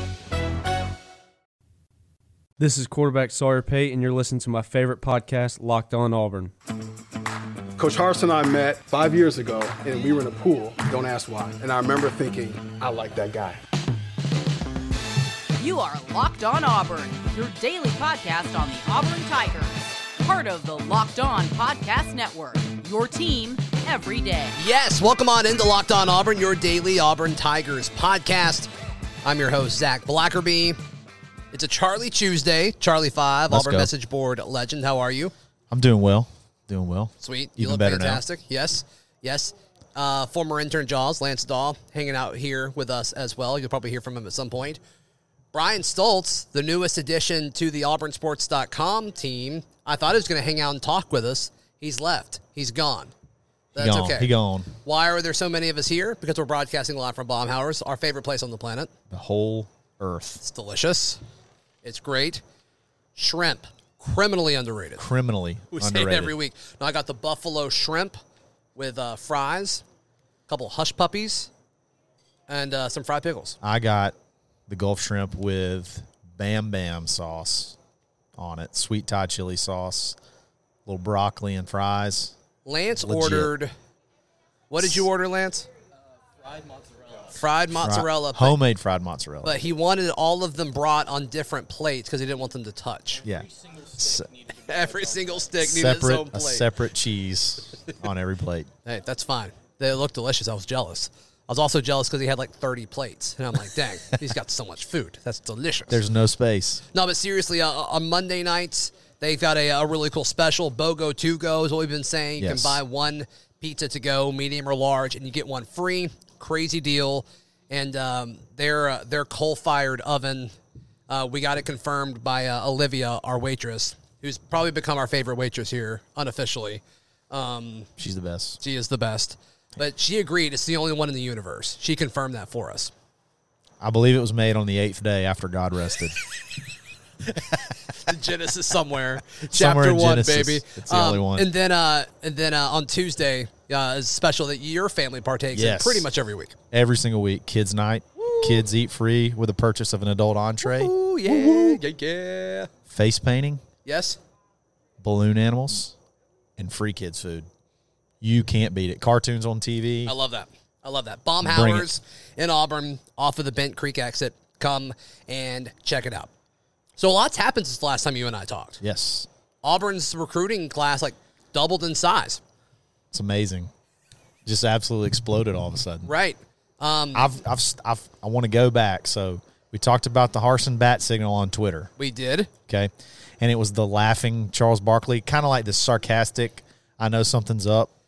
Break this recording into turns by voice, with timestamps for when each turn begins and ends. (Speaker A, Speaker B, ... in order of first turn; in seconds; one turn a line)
Speaker A: 2.6-6.5
Speaker B: 7.8-13.6
Speaker C: 15.6-24.6
Speaker D: 24.6-28.7
Speaker D: 29.2-30.8
Speaker D: 31.5-35.3
Speaker E: 33.5-33.9
Speaker E: 35.7-38.2
Speaker D: 37.2-44.8
Speaker D: 45.5-53.1
Speaker D: 53.8-54.3
Speaker E: 53.8-54.7
Speaker D: 54.8-58.9
Speaker E: 59.1-60.4
Speaker D: 60.4-61.2
Speaker D: 61.8-62.4
Speaker D: 63.2-65.1
Speaker E: 65.0-66.3
Speaker D: 65.7-68.2
Speaker D: 68.8-69.8
Speaker D: 70.5-71.5
Speaker D: 72.5-73.6
Speaker E: 73.6-74.2
Speaker E: 74.7-77.8
Speaker E: 78.4-80.2
Speaker E: 80.9-82.3
Speaker D: 82.7-83.7
Speaker E: 83.0-83.5
Speaker D: 84.7-85.7
Speaker D: 87.3-88.6
Speaker E: 87.8-89.6
Speaker D: 89.4-93.2
Speaker E: 93.2-94.3
Speaker D: 94.5-96.7
Speaker E: 95.6-98.7
Speaker D: 98.8-106.0
Speaker E: 105.9-106.8
Speaker D: 106.9-120.5
Speaker E: 112.4-112.8
Speaker D: 121.1-127.9
Speaker E: 128.0-128.6
Speaker D: 128.6-132.9
Speaker E: 133.8-136.2
Speaker D: 137.9-146.6
Speaker E: 139.3-141.5
Speaker E: 145.5-146.1
Speaker E: 146.7-151.8
Speaker D: 148.2-148.7
Speaker D: 150.6-152.7
Speaker E: 152.9-153.6
Speaker D: 153.8-154.2
Speaker E: 155.0-155.9
Speaker E: 156.6-157.5
Speaker E: 158.2-160.1
Speaker D: 160.1-166.3
Speaker E: 161.4-161.9
Speaker D: 167.0-168.8
Speaker E: 168.8-169.3
Speaker D: 169.6-172.4
Speaker E: 173.1-173.7
Speaker E: 174.4-176.1
Speaker D: 176.0-177.3
Speaker E: 177.1-181.9
Speaker D: 182.0-182.5
Speaker E: 182.7-187.9